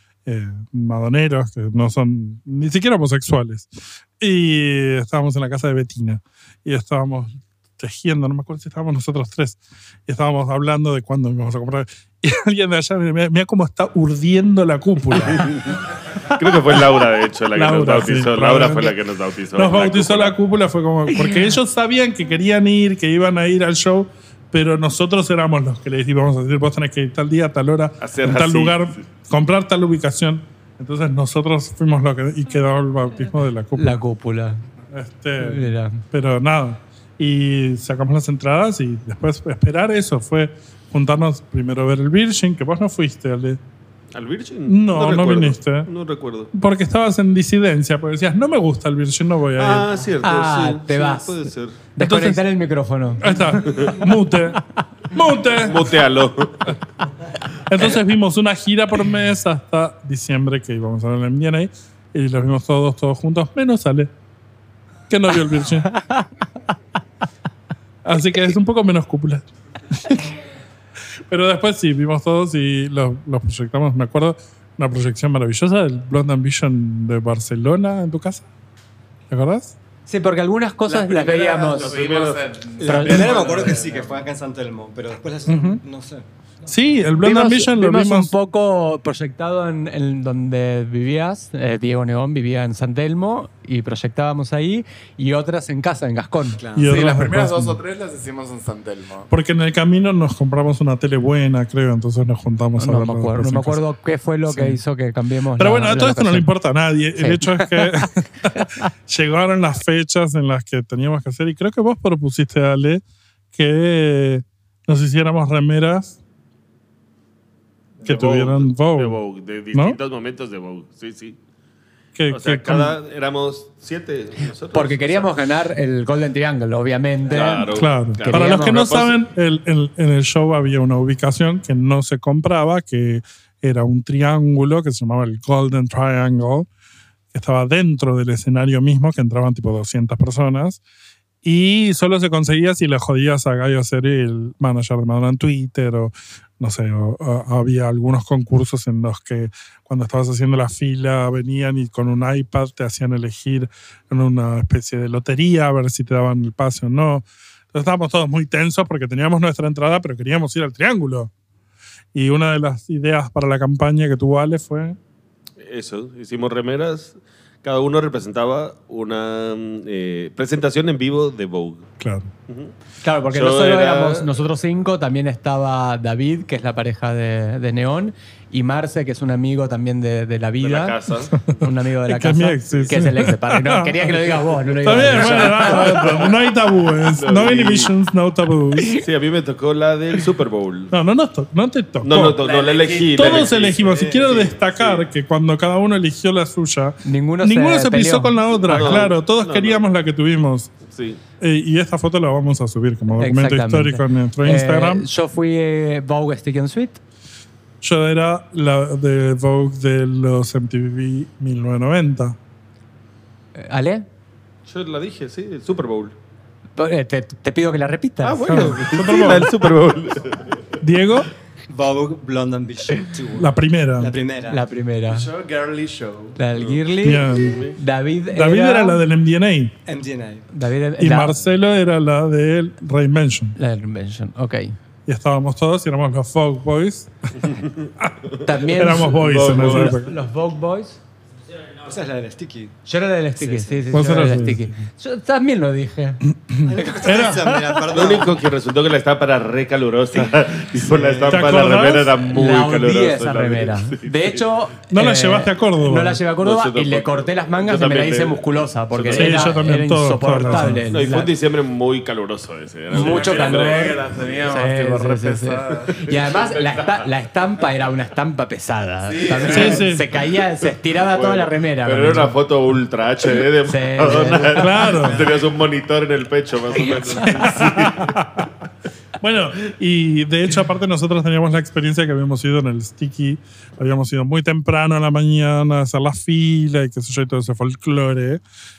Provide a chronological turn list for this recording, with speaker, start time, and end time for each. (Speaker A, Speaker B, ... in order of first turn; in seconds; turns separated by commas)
Speaker A: 0.2-3.7, Speaker A: 4.2-15.6, Speaker B: 15.3-20.4, Speaker A: 17.5-19.0, Speaker A: 19.5-34.0, Speaker B: 28.0-29.0, Speaker C: 33.8-34.6, Speaker A: 34.9-43.6, Speaker C: 35.4-36.0, Speaker B: 44.1-46.5, Speaker A: 44.7-45.9, Speaker A: 46.5-49.9, Speaker B: 49.6-51.8, Speaker C: 50.2-51.3, Speaker C: 52.0-53.3, Speaker A: 52.0-52.4, Speaker A: 53.2-55.9, Speaker B: 53.7-54.0, Speaker B: 55.5-56.7, Speaker A: 57.7-64.1, Speaker A: 65.1-65.9, Speaker A: 68.0-70.3, Speaker A: 71.3-78.4, Speaker A: 79.3-79.7, Speaker C: 80.1-81.9, Speaker D: 80.8-84.2, Speaker B: 81.8-82.5, Speaker E: 82.8-86.7, Speaker C: 82.8-83.4, Speaker A: 85.5-85.8, Speaker A: 86.7-88.3, Speaker C: 87.2-96.6, Speaker D: 96.6-99.3, Speaker A: 96.7-97.8, Speaker A: 99.3-103.8, Speaker C: 102.8-106.5, Speaker A: 104.5-104.8, Speaker A: 105.6-113.0, Speaker C: 107.2-107.9, Speaker A: 113.5-116.2, Speaker A: 118.0-119.2, Speaker B: 118.0-121.4, Speaker A: 119.7-120.0, Speaker A: 122.2-123.0, Speaker B: 122.3-125.3, Speaker C: 124.7-127.7, Speaker B: 127.3-129.2, Speaker A: 127.7-136.7, Speaker C: 128.2-128.8, Speaker A: 137.3-140.8, Speaker A: 141.4-161.3, Speaker A: 162.1-165.0, Speaker B: 165.6-171.9, Speaker A: 172.0-172.3, Speaker B: 172.5-172.7, Speaker C: 173.0-180.9, Speaker B: 173.3-174.4, Speaker B: 180.6-181.3, Speaker A: 181.5-184.3, Speaker C: 181.6-186.2, Speaker A: 184.8-189.0, Speaker B: 185.1-186.2, Speaker B: 187.1-187.9, Speaker B: 189.0-190.9, Speaker A: 190.9-192.4, Speaker B: 192.0-194.6, Speaker D: 192.4-195.0, Speaker A: 193.1-200.7, Speaker C: 197.0-198.3, Speaker B: 198.6-199.8, Speaker B: 200.8-201.2, Speaker A: 201.4-205.1, Speaker C: 203.1-207.0, Speaker A: 207.8-212.4, Speaker C: 213.5-214.1, Speaker B: 214.7-216.1, Speaker C: 216.8-218.8, Speaker B: 218.2-220.7, Speaker A: 218.5-219.5, Speaker A: 220.8-221.3, Speaker E: 221.7-224.7, Speaker A: 223.4-224.1, Speaker C: 224.5-225.3, Speaker D: 225.1-226.4, Speaker C: 226.4-229.0, Speaker A: 227.0-227.7, Speaker B: 227.3-227.7, Speaker A: 228.3-229.7, Speaker E: 229.8-230.5, Speaker C: 230.5-231.4, Speaker A: 231.0-233.6, Speaker C: 233.6-234.8, Speaker A: 235.1-237.3, Speaker B: 237.4-237.9, Speaker C: 238.4-241.0, Speaker A: 238.7-240.1, Speaker B: 239.1-239.9, Speaker E: 241.8-242.8, Speaker C: 242.8-246.2, Speaker E: 243.3-244.4, Speaker A: 243.9-244.8, Speaker A: 246.5-247.4, Speaker E: 246.6-248.4, Speaker C: 246.8-247.6, Speaker B: 247.9-254.4, Speaker E: 250.8-251.5, Speaker A: 251.3-252.1, Speaker C: 252.2-261.3, Speaker A: 254.9-256.2, Speaker B: 256.4-259.5, Speaker A: 259.1-260.8, Speaker B: 260.6-264.0, Speaker C: 262.9-264.0, Speaker D: 262.9-266.0, Speaker C: 264.5-272.4, Speaker B: 265.9-267.0, Speaker D: 269.1-269.9, Speaker A: 269.5-270.1, Speaker B: 271.0-278.1, Speaker C: 273.7-274.7, Speaker A: 274.6-275.2, Speaker A: 277.3-278.5, Speaker A: 279.2-288.4